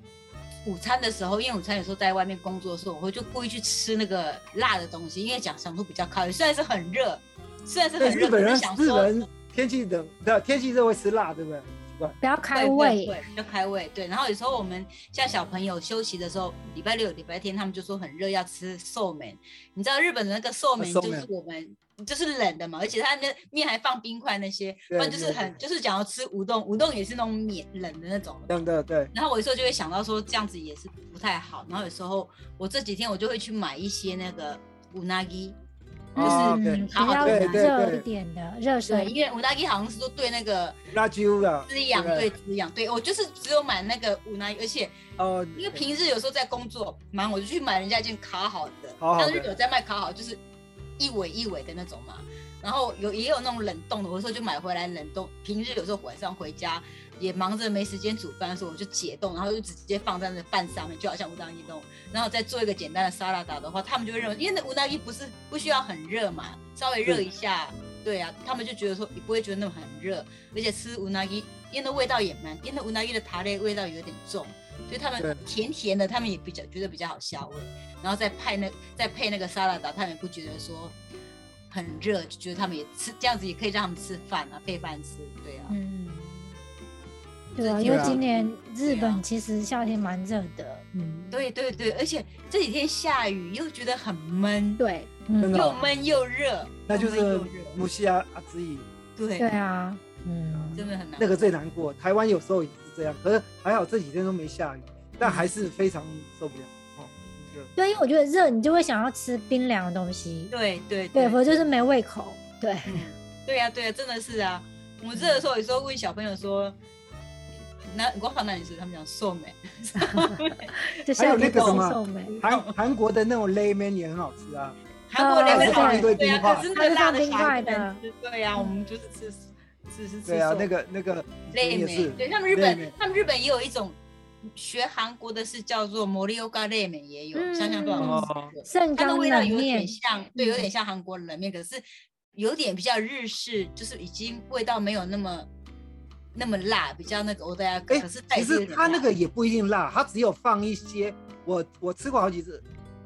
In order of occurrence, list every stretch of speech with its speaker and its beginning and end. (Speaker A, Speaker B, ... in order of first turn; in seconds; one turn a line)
Speaker A: 0.6-9.2
Speaker B: 8.0-12.2
Speaker C: 12.2-13.2
Speaker A: 12.6-28.6
Speaker B: 20.8-21.3
Speaker B: 24.9-25.6
Speaker B: 28.5-29.1
Speaker A: 29.1-35.6
Speaker B: 36.1-38.0
Speaker A: 36.2-37.7
Speaker C: 36.2-39.1
Speaker A: 38.9-40.8
Speaker B: 40.9-42.3
Speaker A: 41.7-45.0
Speaker B: 45.2-45.8
Speaker A: 45.6-50.4
Speaker B: 49.0-49.5
Speaker A: 51.0-81.0
Speaker B: 75.2-75.4
Speaker A: 81.7-85.8
Speaker C: 85.7-86.6
Speaker C: 87.6-91.3
Speaker A: 87.6-89.2
Speaker B: 87.8-88.2
Speaker A: 91.3-94.8
Speaker C: 94.8-95.7
Speaker B: 95.4-95.8
Speaker A: 95.5-97.8
Speaker B: 96.9-98.9
Speaker A: 99.2-99.5
Speaker C: 99.4-100.9
Speaker B: 100.5-107.7
Speaker A: 100.8-101.5
Speaker A: 105.2-105.5
Speaker C: 107.8-110.5
Speaker A: 110.5-111.4
Speaker C: 111.1-112.9
Speaker A: 112.9-116.8
Speaker A: 117.8-122.8
Speaker C: 120.0-122.3
Speaker B: 121.2-124.8
Speaker A: 125.1-130.7
Speaker C: 125.2-128.0
Speaker B: 125.5-126.7
Speaker B: 130.3-132.9
Speaker A: 131.5-145.5
Speaker C: 137.3-140.7
Speaker B: 138.0-138.5
Speaker A: 146.3-149.1
Speaker B: 147.9-152.6